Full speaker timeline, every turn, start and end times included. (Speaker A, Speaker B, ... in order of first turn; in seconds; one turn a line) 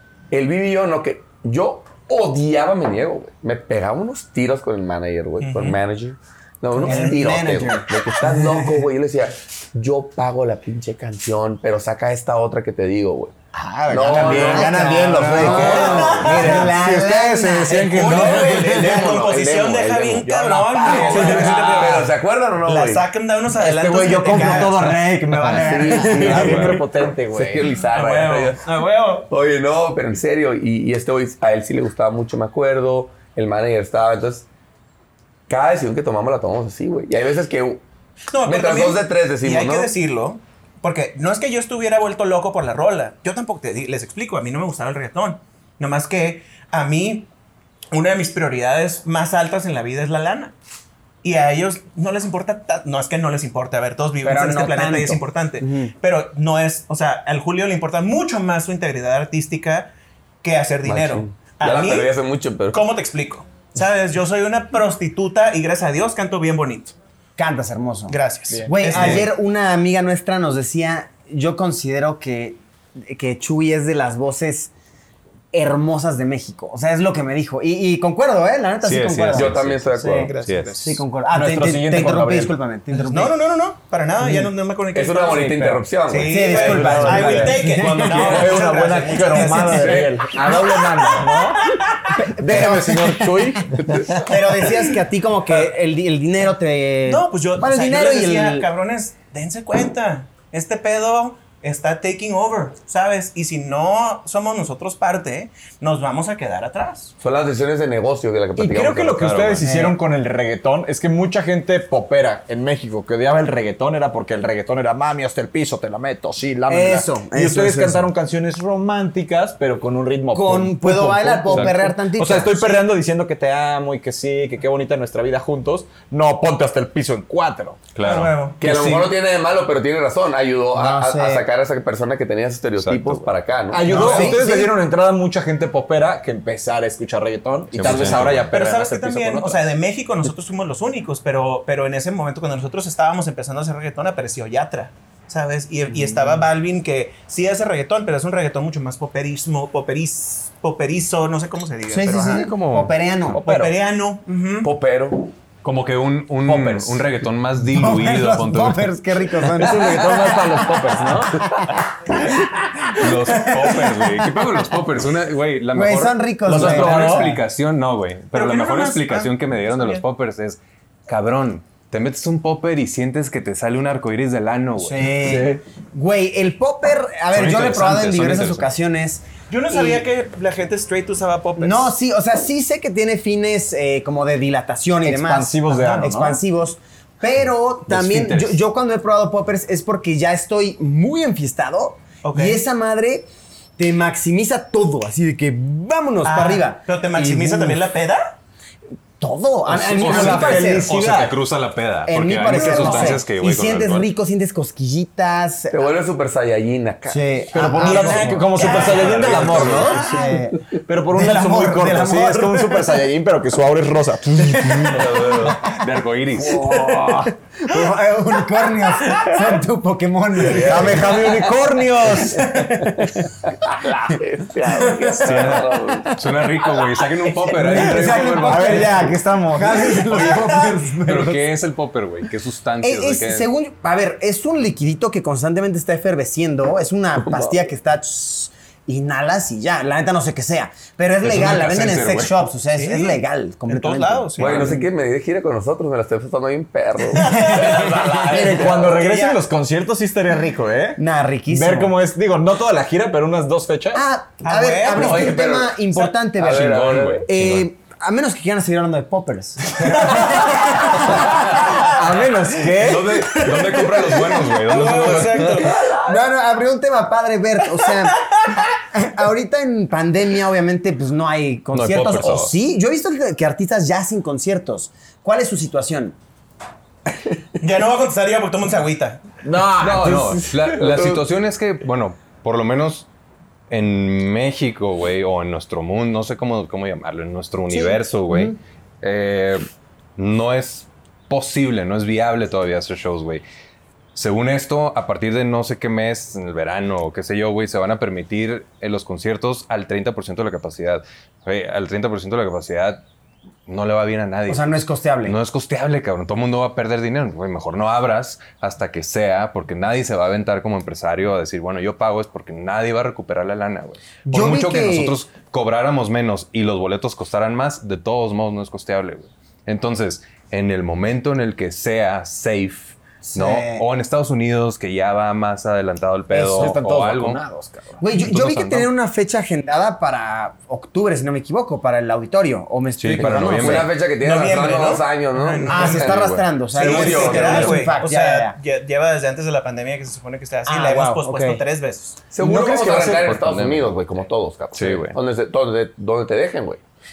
Speaker A: 0.3-13.3
Speaker B: 5.4-5.8
Speaker C: 6.8-8.8
Speaker B: 6.8-7.1
Speaker D: 13.5-18.9
Speaker A: 13.9-16.5
Speaker C: 14.0-18.6
Speaker B: 15.5-16.7
Speaker B: 17.7-25.1
Speaker A: 18.1-23.1
Speaker D: 20.6-22.1
Speaker D: 23.5-27.8
Speaker C: 24.2-26.7
Speaker A: 25.4-28.7
Speaker E: 26.2-26.8
Speaker B: 27.9-29.3
Speaker A: 29.3-34.5
Speaker A: 35.5-37.8
Speaker B: 38.3-47.3
Speaker A: 38.4-39.9
Speaker B: 47.9-50.5
Speaker B: 51.2-59.9
Speaker C: 54.2-55.9
Speaker B: 60.4-62.1
Speaker A: 60.8-62.9
Speaker B: 62.7-67.0
Speaker C: 67.4-74.7
Speaker B: 68.1-69.3
Speaker D: 68.5-69.0
Speaker E: 68.9-69.3
Speaker C: 75.5-83.4
Speaker E: 78.8-81.0
Speaker A: 79.3-80.4
Speaker B: 80.1-80.9
Speaker D: 81.3-82.5
Speaker B: 83.1-92.1
Speaker C: 84.2-84.5
Speaker A: 84.9-87.6
Speaker C: 86.2-90.9
Speaker D: 86.5-94.1
Speaker E: 87.6-88.6
Speaker A: 89.7-90.3
Speaker C: 92.1-98.7
Speaker A: 93.7-94.3
Speaker B: 94.5-94.8
Speaker B: 97.0-107.1
Speaker A: 107.2-109.3
Speaker D: 108.5-127.8
Speaker E: 109.1-109.7
Speaker C: 109.6-110.0
Speaker C: 116.7-118.1
Speaker C: 120.3-122.9
Speaker E: 127.9-129.2
Speaker B: 128.0-128.6
Speaker A: 128.6-134.3
Speaker C: 130.7-131.4
Speaker E: 132.8-133.3
Speaker D: 133.7-139.7
Speaker C: 133.8-134.7
Speaker B: 133.9-134.3
Speaker E: 137.7-138.5
Speaker B: 138.5-152.5
Speaker C: 145.9-146.4
Speaker C: 151.9-153.4
Speaker E: 152.2-152.9
Speaker D: 153.3-153.8
Speaker B: 153.4-154.7
Speaker A: 154.6-155.3
Speaker E: 155.6-159.5
Speaker D: 156.5-157.0
Speaker C: 157.6-164.4
Speaker D: 159.6-161.6
Speaker E: 162.9-175.2
Speaker C: 165.7-167.4
Speaker D: 166.4-167.3
Speaker B: 168.3-170.0
Speaker C: 174.8-180.1
Speaker D: 175.2-175.6
Speaker E: 177.3-178.7
Speaker B: 179.5-181.9
Speaker C: 181.6-197.8
Speaker D: 185.0-186.4
Speaker E: 188.0-188.5
Speaker B: 192.2-192.6
Speaker B: 196.2-198.3
Speaker C: 199.2-201.0
Speaker D: 199.7-201.3
Speaker E: 199.9-204.1
Speaker C: 202.1-205.8
Speaker B: 202.5-203.1
Speaker A: 205.7-207.2
Speaker C: 207.1-210.6
Speaker D: 207.5-210.3
Speaker B: 207.8-210.0
Speaker E: 208.4-210.1
Speaker D: 210.8-215.0
Speaker C: 211.1-213.0
Speaker C: 214.4-215.0
Speaker E: 214.9-216.9
Speaker A: 214.9-215.6
Speaker C: 216.4-226.4
Speaker D: 220.4-222.6
Speaker A: 223.5-226.2
Speaker E: 225.2-229.0
Speaker C: 227.5-231.5
Speaker D: 227.6-230.2
Speaker B: 230.2-230.7
Speaker E: 231.0-233.5
Speaker C: 232.8-244.9
Speaker A: 237.2-237.6
Speaker E: 241.2-242.4
Speaker B: 242.7-244.7
Speaker A: 244.4-249.0
Speaker C: 247.1-248.7
Speaker B: 247.1-248.2
Speaker D: 248.2-254.0
Speaker B: 248.9-249.4
Speaker C: 251.0-251.9
Speaker C: 253.9-261.9
Speaker B: 254.4-255.3
Speaker A: 254.9-255.8
Speaker E: 256.4-257.7
Speaker A: 256.4-257.3
Speaker D: 261.8-263.4
Speaker E: 262.8-265.7
Speaker C: 263.1-264.4
Speaker B: 264.6-265.9
Speaker A: 265.6-266.2
Speaker C: 266.0-276.1
Speaker E: 271.7-272.5
Speaker B: 277.6-279.2
Speaker D: 279.4-280.8
Speaker E: 279.8-283.1
Speaker A: 280.8-281.2
Speaker E: 283.7-289.6
Speaker C: 287.7-288.6
Speaker E: 290.2-293.4
Speaker E: 294.1-303.0
Speaker E: 303.7-327.4
Speaker C: 304.5-305.4
Speaker C: 314.3-315.2
Speaker C: 323.2-323.8
Speaker C: 326.3-326.8
Speaker D: 326.4-328.0
Speaker C: 328.0-333.9
Speaker E: 328.2-328.9
Speaker E: 333.0-333.9
Speaker A: 333.1-337.9
Speaker B: 334.2-336.1
Speaker C: 335.7-338.6
Speaker E: 336.0-336.4
Speaker B: 336.7-342.2
Speaker C: 340.6-341.6
Speaker A: 342.3-346.8
Speaker D: 342.4-343.3
Speaker E: 343.1-344.0
Speaker E: 344.7-345.2